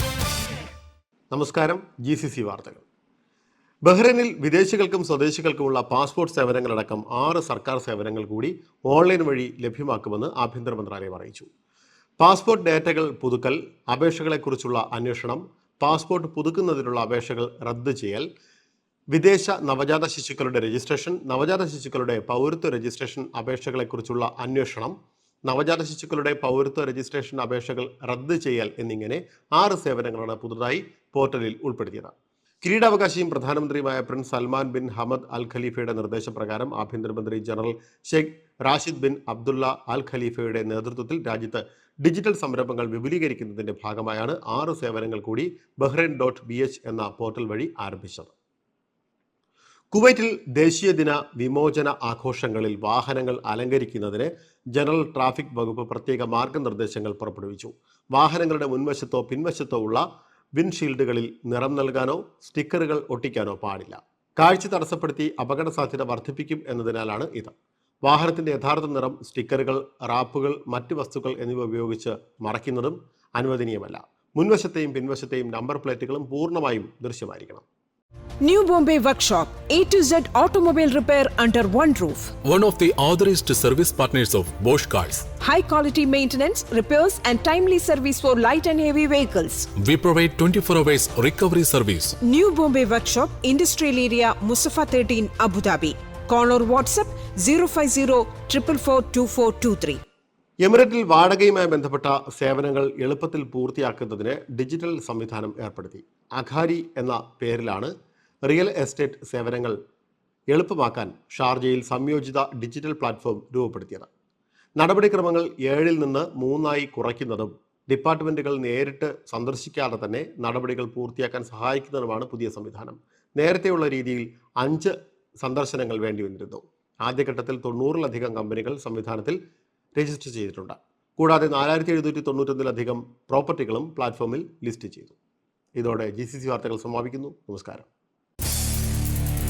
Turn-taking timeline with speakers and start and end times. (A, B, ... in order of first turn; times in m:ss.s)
0:01.3-0:02.8 A
0:03.8-0:11.5 A
0:12.2-0:18.3 A
0:19.1-0:25.0 A
0:25.4-0:48.3 A
0:49.9-1:00.0 A
1:00.6-1:17.6 A
1:18.4-1:22.3 B
1:22.4-1:25.2 C
1:25.4-1:29.7 B
1:29.8-1:32.2 C
1:32.2-1:40.0 B
1:40.6-1:47.9 A
1:48.5-1:49.8 A
1:50.5-1:54.1 A
1:54.8-2:09.4 A
2:10.0-2:15.2 A
2:15.8-2:17.9 A